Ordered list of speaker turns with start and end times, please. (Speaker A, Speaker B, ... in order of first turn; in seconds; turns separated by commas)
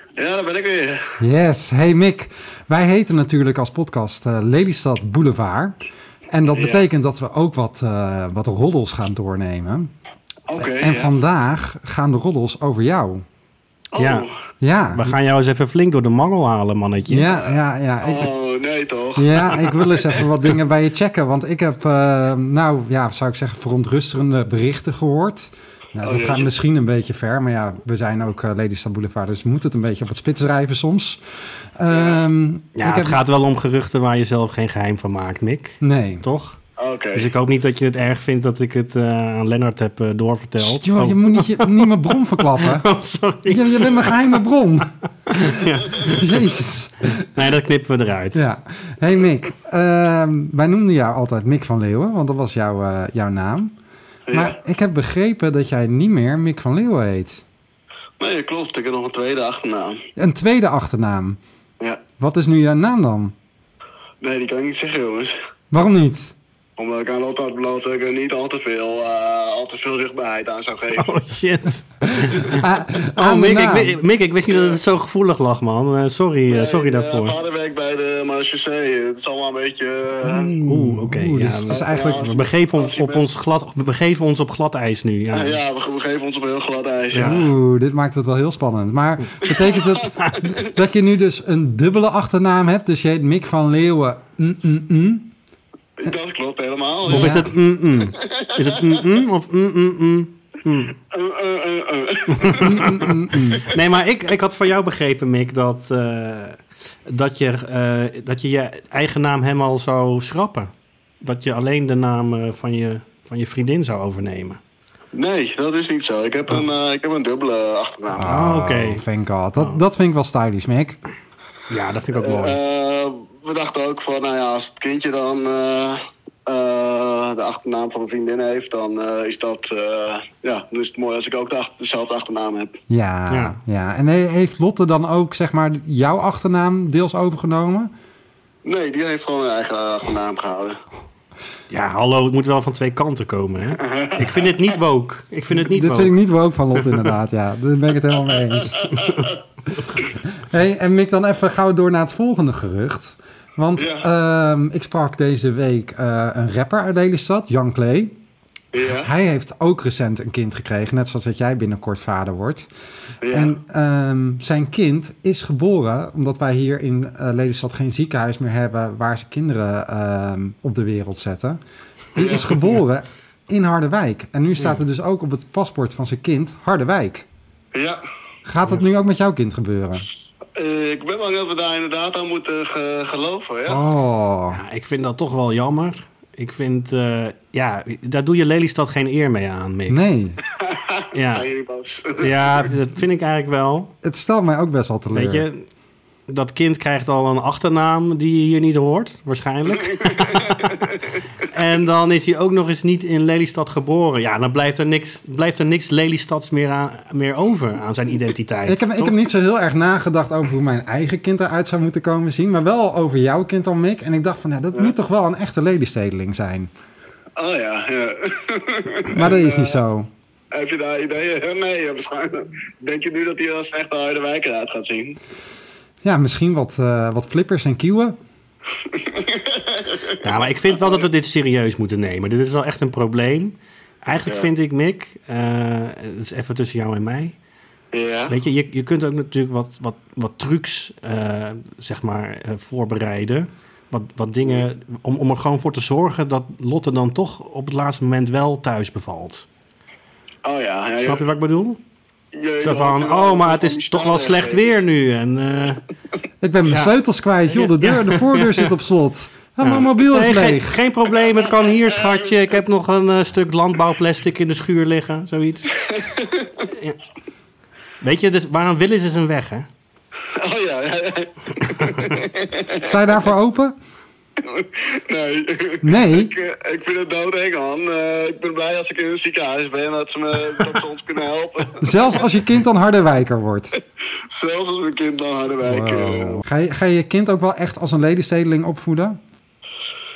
Speaker A: 0.2-1.2, Speaker B: 1.2-5.8, Speaker B: 6.3-9.9, Speaker A: 6.5-6.8, Speaker A: 10.5-11.1, Speaker B: 10.6-13.2, Speaker A: 13.9-14.3, Speaker C: 14.0-14.3, Speaker B: 14.6-15.1, Speaker C: 14.9-17.3, Speaker B: 17.1-18.3, Speaker A: 18.0-20.3, Speaker B: 19.1-31.2, Speaker A: 26.0-26.5, Speaker B: 31.8-33.2, Speaker A: 31.9-32.2, Speaker C: 32.8-36.6, Speaker B: 35.8-36.2, Speaker A: 36.8-37.3, Speaker C: 37.1-44.4, Speaker B: 40.6-42.9, Speaker B: 43.5-47.5, Speaker C: 45.2-46.6, Speaker C: 47.3-48.5, Speaker B: 48.3-53.7, Speaker A: 54.3-54.5, Speaker B: 54.3-57.4, Speaker A: 58.2-60.1, Speaker B: 60.2-61.4, Speaker B: 62.2-63.3, Speaker A: 64.2-65.3, Speaker B: 65.7-66.3, Speaker A: 66.8-71.1, Speaker C: 71.0-77.3, Speaker B: 72.5-74.0, Speaker A: 74.5-74.8, Speaker A: 76.5-80.5, Speaker B: 80.2-82.4, Speaker C: 80.6-85.6, Speaker A: 81.7-83.2, Speaker A: 85.3-87.5, Speaker B: 87.1-95.3, Speaker A: 89.5-90.7, Speaker C: 90.0-90.5, Speaker A: 96.0-99.0, Speaker C: 97.1-101.0, Speaker B: 97.1-97.5, Speaker A: 101.1-103.6, Speaker C: 102.3-110.7, Speaker B: 102.6-103.6, Speaker C: 111.2-114.6, Speaker A: 115.1-118.3, Speaker B: 118.2-121.0, Speaker C: 118.2-119.0, Speaker C: 121.7-122.6, Speaker A: 122.1-132.8, Speaker B: 132.9-137.9, Speaker C: 133.3-133.6, Speaker A: 138.6-140.8, Speaker C: 141.7-146.2, Speaker A: 143.8-144.5, Speaker B: 145.5-149.0, Speaker C: 146.8-147.1, Speaker A: 148.3-149.3, Speaker C: 148.9-149.2, Speaker B: 150.2-158.1, Speaker A: 153.8-154.1, Speaker A: 158.7-159.1, Speaker B: 158.8-162.7, Speaker A: 163.2-163.5, Speaker B: 163.3-171.6, Speaker B: 172.1-177.2, Speaker A: 172.2-172.5, Speaker A: 177.7-178.0, Speaker B: 178.4-180.1, Speaker A: 180.5-183.8, Speaker B: 183.7-184.6, Speaker C: 184.5-190.0, Speaker B: 189.9-190.4, Speaker A: 190.5-192.5, Speaker C: 191.1-191.5, Speaker C: 192.2-193.9, Speaker B: 194.0-195.4, Speaker C: 195.1-195.7, Speaker C: 196.3-209.2, Speaker A: 199.7-201.1, Speaker B: 208.7-216.7, Speaker A: 217.4-219.8, Speaker B: 219.1-220.1, Speaker A: 220.5-225.2, Speaker B: 226.0-228.2, Speaker A: 228.7-230.2, Speaker C: 230.2-237.4, Speaker A: 230.8-231.0, Speaker A: 237.9-238.4, Speaker C: 238.3-249.5, Speaker A: 250.4-251.2, Speaker C: 251.0-251.8, Speaker A: 252.3-254.8, Speaker C: 252.6-255.8, Speaker B: 256.4-260.8, Speaker C: 257.5-258.7, Speaker C: 259.6-265.8, Speaker A: 261.2-262.1, Speaker A: 265.7-266.7, Speaker C: 266.6-267.0, Speaker C: 268.0-269.7, Speaker A: 270.3-272.9, Speaker C: 271.6-272.1, Speaker B: 272.8-273.7, Speaker A: 274.4-282.3, Speaker B: 275.8-276.3, Speaker B: 281.8-283.7, Speaker A: 284.3-286.4, Speaker B: 285.6-289.2